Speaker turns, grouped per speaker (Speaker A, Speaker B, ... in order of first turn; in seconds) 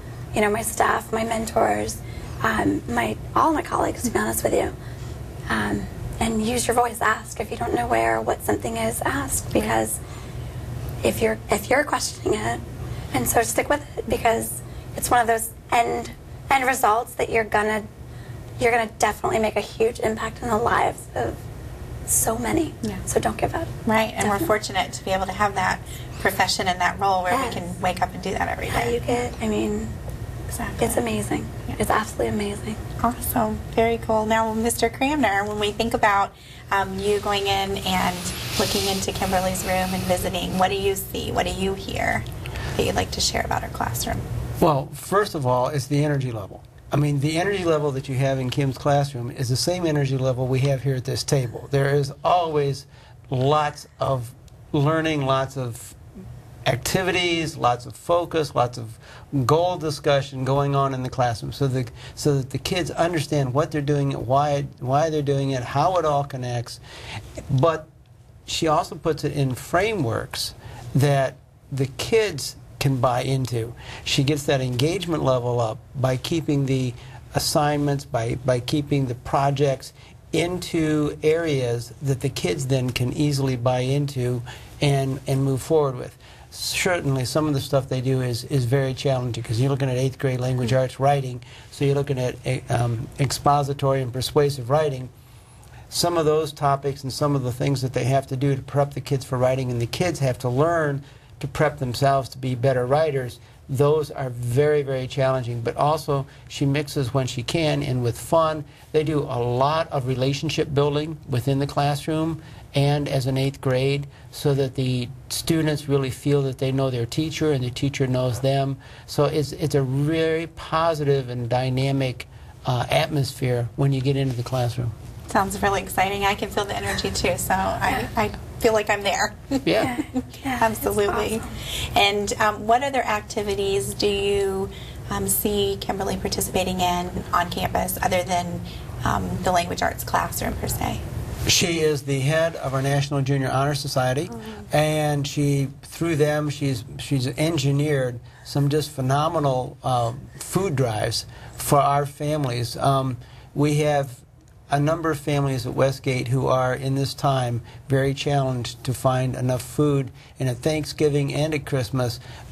Speaker A: 0.3-4.7, 5.5-10.0, 11.0-12.6, 13.1-17.9, 18.6-21.4, 22.1-23.7, 24.2-24.5, 27.3-27.6, 28.7-29.9, 30.8-32.8, 129.8-131.5
Speaker B: 23.9-29.0, 30.5-31.1, 33.0-44.2, 125.3-141.0
Speaker C: 44.6-56.0, 56.6-66.8, 67.5-67.9, 68.5-95.1, 95.9-124.9, 141.4-162.2